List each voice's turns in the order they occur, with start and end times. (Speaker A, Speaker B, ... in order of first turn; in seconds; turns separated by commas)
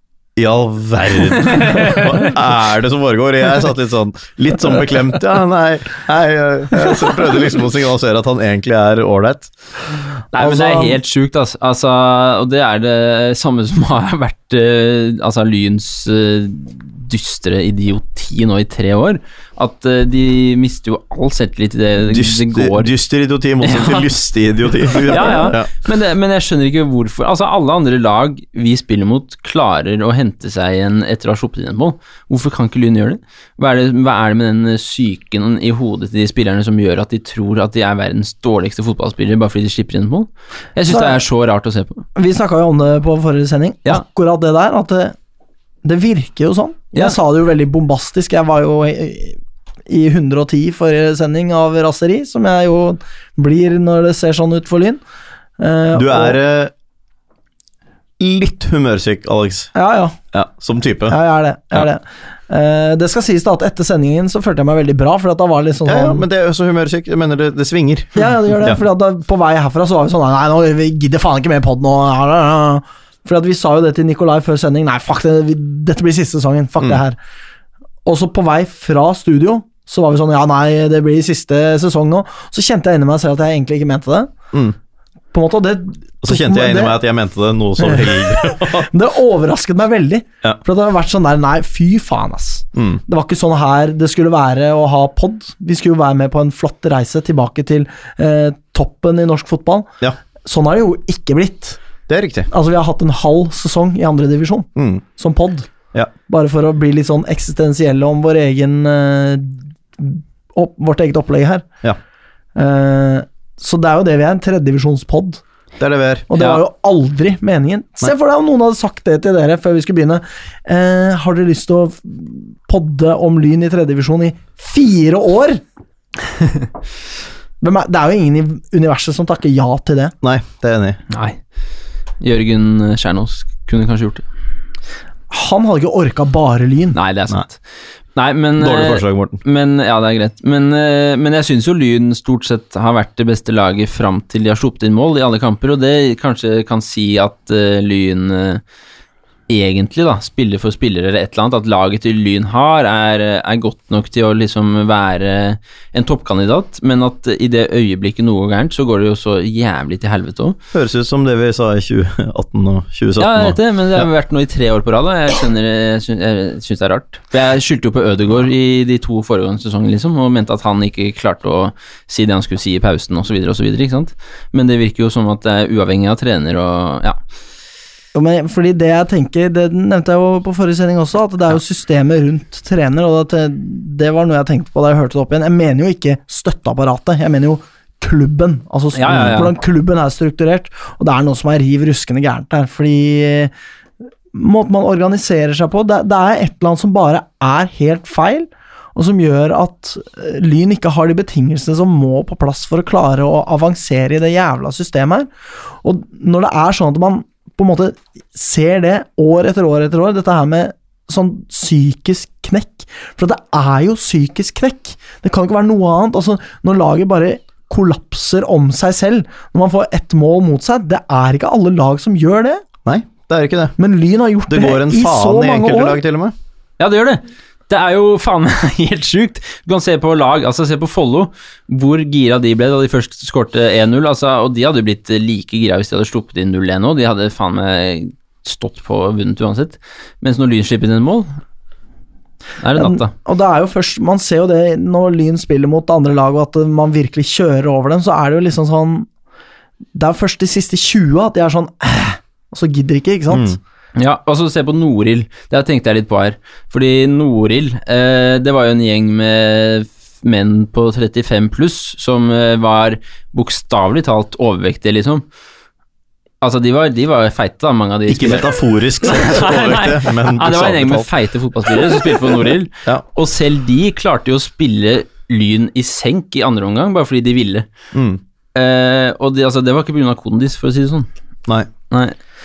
Speaker A: 0.4-9.5, Speaker B: 1.6-2.0, Speaker B: 10.3-22.9, Speaker C: 10.4-10.9, Speaker A: 22.0-25.7, Speaker B: 23.6-24.1, Speaker B: 24.9-42.0, Speaker C: 40.9-41.2, Speaker C: 42.2-45.2, Speaker C: 45.8-55.0, Speaker C: 55.6-56.4, Speaker A: 55.9-56.7, Speaker A: 58.2-59.7, Speaker C: 59.7-60.2, Speaker A: 60.3-61.2, Speaker C: 61.1-66.3, Speaker A: 65.8-68.8, Speaker C: 68.2-77.2, Speaker C: 78.0-84.3, Speaker C: 85.3-87.0, Speaker A: 86.2-88.9, Speaker C: 87.8-99.9, Speaker A: 92.8-93.0, Speaker C: 100.4-101.8, Speaker A: 102.1-102.5, Speaker C: 102.5-105.7, Speaker A: 104.8-105.0, Speaker C: 106.3-111.7, Speaker C: 112.6-115.4, Speaker A: 115.8-116.3, Speaker C: 116.3-125.6, Speaker C: 127.6-130.1, Speaker A: 130.2-131.0, Speaker B: 131.1-131.4, Speaker B: 132.2-134.2, Speaker C: 135.3-137.0, Speaker B: 136.9-137.6, Speaker B: 138.2-148.6, Speaker A: 138.6-139.4, Speaker B: 149.5-160.6, Speaker A: 160.7-164.1, Speaker B: 163.2-177.2, Speaker C: 178.1-193.5, Speaker B: 188.9-189.5, Speaker A: 189.1-189.4, Speaker C: 194.3-205.3, Speaker C: 205.8-222.6, Speaker A: 222.8-223.8, Speaker C: 223.8-226.0, Speaker A: 224.5-226.3, Speaker B: 226.8-241.3, Speaker B: 242.6-243.1, Speaker C: 242.8-249.1, Speaker C: 249.9-253.6, Speaker A: 253.3-253.6, Speaker B: 254.0-265.2, Speaker B: 266.4-277.7, Speaker A: 268.1-271.1, Speaker A: 271.7-272.2, Speaker A: 277.9-278.2, Speaker B: 278.6-281.1, Speaker B: 281.9-282.2